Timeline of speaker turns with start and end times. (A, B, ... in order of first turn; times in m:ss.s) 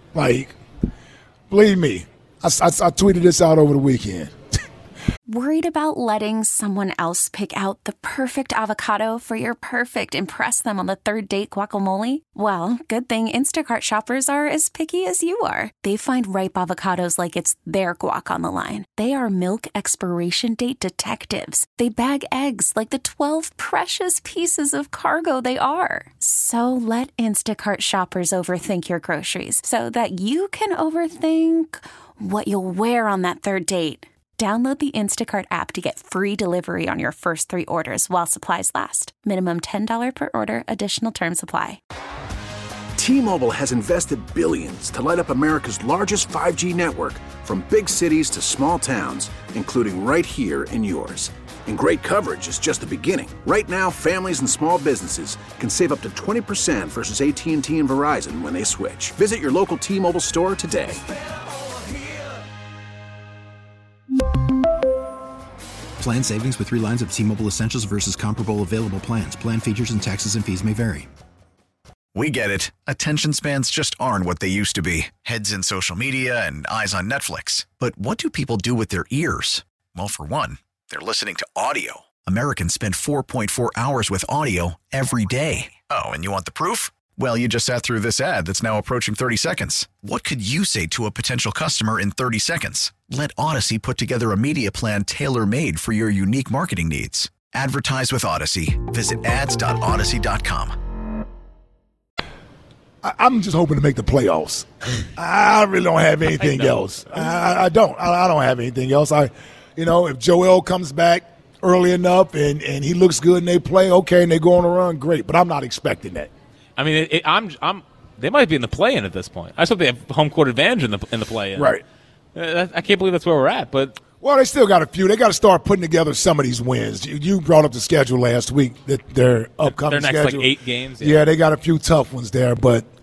0:00.1-0:00.5 A
0:01.5-0:04.4 A
0:05.3-0:41.8 B
0:43.0-1:01.0 C
1:06.0-1:11.1 D
1:12.1-1:40.7 E
1:43.0-1:56.3 A
1:46.4-1:47.3 F
1:56.8-2:01.7 F
2:01.6-2:01.8 A
2:02.3-2:04.0 F
2:04.2-2:12.8 A
2:09.6-2:11.2 F